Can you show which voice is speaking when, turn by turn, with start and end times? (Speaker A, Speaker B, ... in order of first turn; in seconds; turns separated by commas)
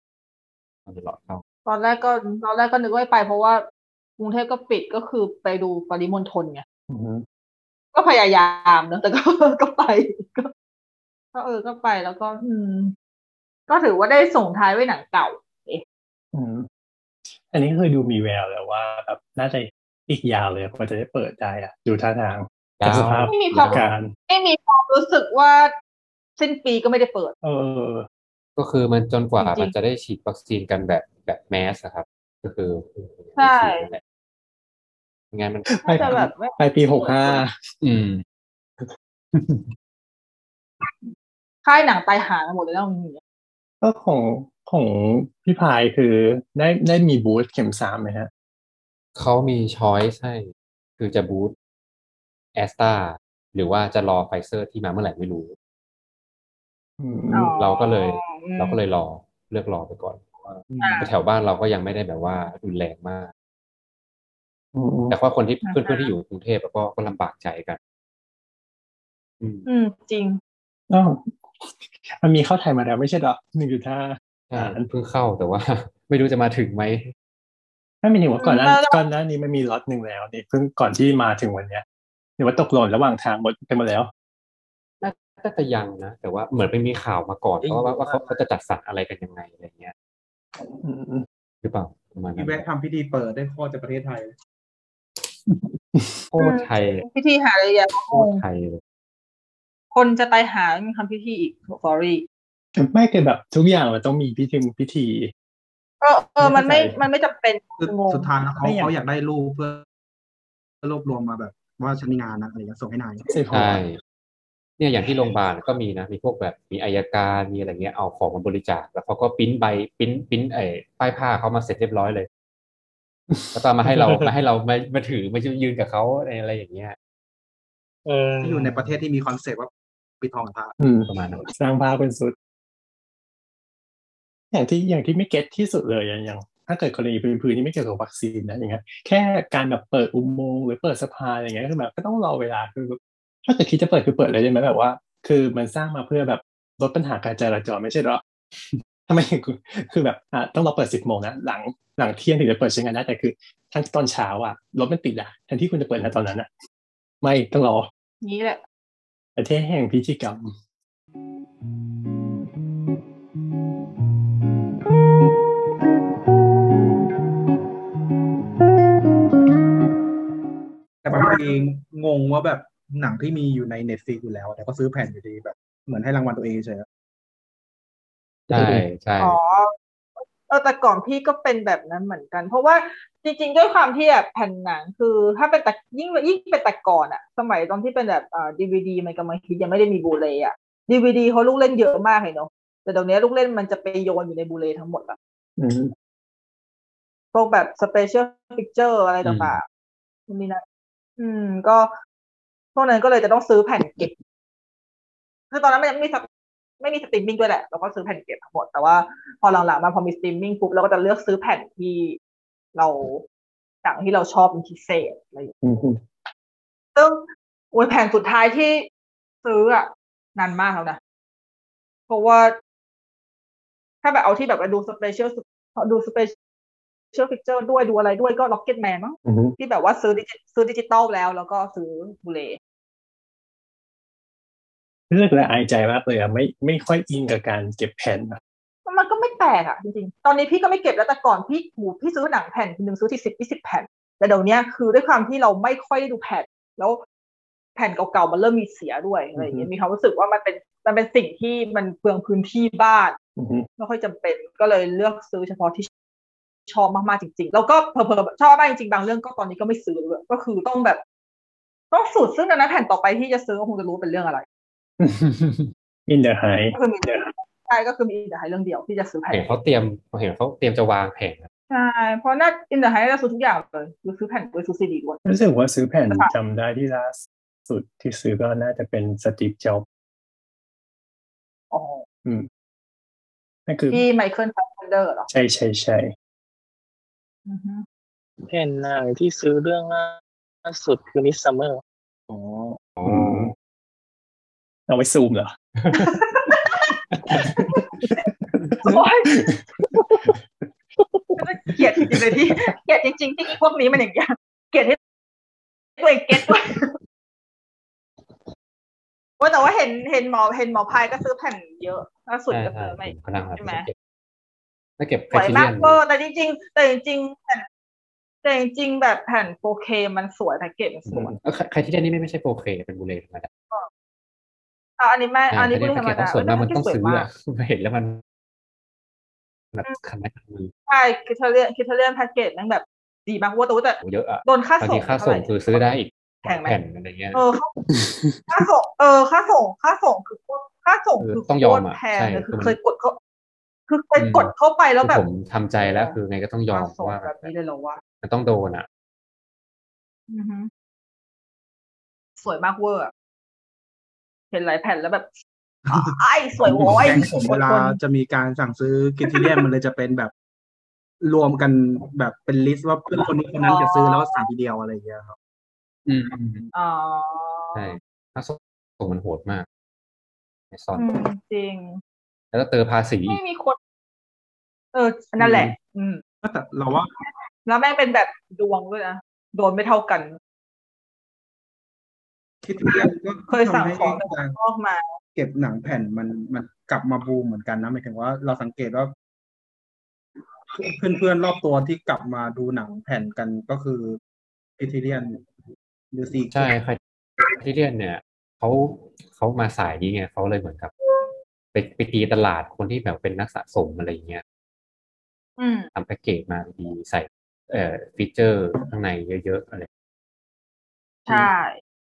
Speaker A: 0.9-1.4, Speaker B: 1.7-3.6, Speaker B: 4.2-6.6, Speaker C: 6.9-7.3, Speaker B: 7.9-10.5, Speaker B: 11.3-12.9, Speaker B: 13.7-15.8, Speaker C: 16.3-16.7, Speaker C: 17.3-24.1, Speaker A: 22.8-23.9, Speaker B: 23.3-25.7, Speaker B: 26.4-27.3, Speaker C: 27.4-28.1, Speaker A: 28.6-34.0, Speaker B: 29.4-29.7, Speaker B: 33.4-33.9, Speaker A: 35.3-36.2, Speaker C: 35.7-37.5, Speaker B: 35.8-37.3, Speaker A: 37.8-38.2, Speaker A: 39.3-39.7, Speaker B: 41.6-43.2, Speaker C: 43.8-48.3, Speaker A: 49.2-50.5, Speaker A: 51.0-51.5, Speaker A: 52.5-55.5, Speaker C: 57.0-57.5, Speaker B: 57.3-58.8, Speaker A: 57.6-63.3, Speaker D: 60.7-61.1, Speaker B: 60.8-61.1, Speaker C: 64.8-65.1, Speaker A: 65.1-67.8, Speaker B: 65.6-66.1, Speaker A: 69.4-69.7, Speaker B: 69.7-70.4, Speaker C: 70.9-74.9, Speaker A: 74.5-77.1, Speaker C: 78.0-81.8, Speaker B: 78.4-79.0, Speaker C: 82.4-84.1, Speaker A: 85.0-89.9, Speaker E: 87.6-88.3, Speaker C: 90.8-91.3, Speaker A: 91.6-92.6, Speaker D: 92.4-94.3, Speaker A: 96.3-97.1, Speaker B: 96.4-98.4, Speaker A: 98.1-98.8, Speaker B: 99.9-102.2, Speaker C: 102.8-105.3, Speaker B: 106.0-108.3, Speaker C: 106.4-107.0, Speaker D: 107.8-109.8, Speaker C: 108.6-108.9, Speaker D: 110.8-113.3, Speaker C: 113.3-113.8, Speaker A: 113.5-114.0, Speaker A: 114.8-122.3, Speaker C: 123.3-124.3, Speaker A: 123.5-127.0, Speaker E: 128.1-128.8, Speaker D: 128.4-129.7, Speaker D: 130.2-130.7, Speaker C: 130.8-132.3, Speaker A: 131.1-131.4, Speaker C: 134.5-148.2, Speaker C: 149.1-156.5, Speaker C: 157.2-157.9, Speaker B: 158.2-158.6, Speaker C: 159.4-160.5, Speaker D: 171.0-176.9, Speaker C: 178.5-178.8, Speaker A: 178.5-179.4, Speaker B: 179.2-195.2, Speaker C: 195.6-195.9, Speaker B: 197.3-199.6, Speaker A: 199.2-199.6, Speaker B: 200.3-200.6, Speaker B: 201.2-201.9, Speaker B: 202.8-204.1, Speaker B: 205.5-206.3, Speaker B: 206.8-212.2, Speaker B: 212.8-213.2, Speaker B: 213.8-215.5, Speaker C: 215.6-216.0, Speaker B: 216.9-218.9, Speaker B: 219.4-221.0, Speaker B: 222.1-222.5, Speaker B: 224.0-226.3, Speaker B: 227.1-232.6, Speaker C: 229.2-229.6, Speaker C: 235.1-238.4, Speaker B: 238.9-247.0, Speaker B: 247.8-253.2, Speaker C: 249.4-249.7, Speaker C: 253.4-253.7, Speaker B: 253.8-255.9, Speaker B: 256.7-261.0, Speaker B: 261.9-264.4, Speaker C: 265.0-267.2, Speaker B: 266.7-269.5, Speaker A: 269.3-271.5, Speaker B: 271.7-275.2, Speaker C: 275.3-279.9, Speaker B: 281.7-282.0, Speaker C: 283.7-284.1, Speaker B: 283.9-285.3, Speaker C: 285.3-286.1, Speaker B: 287.4-287.9, Speaker E: 288.4-291.8, Speaker D: 292.3-292.8, Speaker A: 292.9-293.5, Speaker C: 293.1-293.5, Speaker C: 294.9-296.1, Speaker B: 295.9-296.9, Speaker C: 297.3-297.6, Speaker B: 298.8-299.3, Speaker C: 299.3-300.4, Speaker E: 300.0-300.3, Speaker E: 301.0-301.3, Speaker B: 301.4-305.0, Speaker B: 306.0-306.9, Speaker B: 309.4-313.9, Speaker A: 312.5-313.9, Speaker A: 315.0-316.0, Speaker B: 315.3-317.6, Speaker B: 318.4-321.3, Speaker A: 321.1-323.5, Speaker B: 325.0-327.2, Speaker A: 325.5-328.2, Speaker A: 329.7-330.7, Speaker B: 330.9-335.8, Speaker A: 334.0-337.4, Speaker B: 336.4-336.8, Speaker B: 337.3-337.7, Speaker C: 337.9-338.4, Speaker B: 338.5-343.2, Speaker A: 341.2-342.8, Speaker B: 343.9-345.2, Speaker A: 344.2-347.5, Speaker B: 345.8-346.2, Speaker B: 346.7-348.0, Speaker A: 348.2-348.9, Speaker B: 350.3-350.7, Speaker B: 352.4-353.1, Speaker B: 354.5-355.3, Speaker B: 355.9-357.9, Speaker D: 356.9-360.3, Speaker A: 356.9-357.2, Speaker B: 359.3-359.6, Speaker D: 361.2-365.4, Speaker B: 363.6-364.4, Speaker A: 366.1-366.7, Speaker B: 366.7-368.0, Speaker A: 367.8-369.7, Speaker A: 370.7-371.2, Speaker B: 370.9-372.0, Speaker A: 372.5-373.4, Speaker B: 373.3-373.8, Speaker B: 374.9-376.2, Speaker D: 376.4-377.1, Speaker B: 377.7-380.3, Speaker D: 382.6-384.6, Speaker B: 383.5-385.0, Speaker D: 385.4-389.1, Speaker D: 390.7-394.2, Speaker D: 394.8-395.4, Speaker D: 396.1-396.7, Speaker A: 396.5-397.0, Speaker A: 397.6-400.9, Speaker A: 401.7-404.4, Speaker B: 405.6-405.9, Speaker A: 405.9-409.9, Speaker B: 411.3-411.7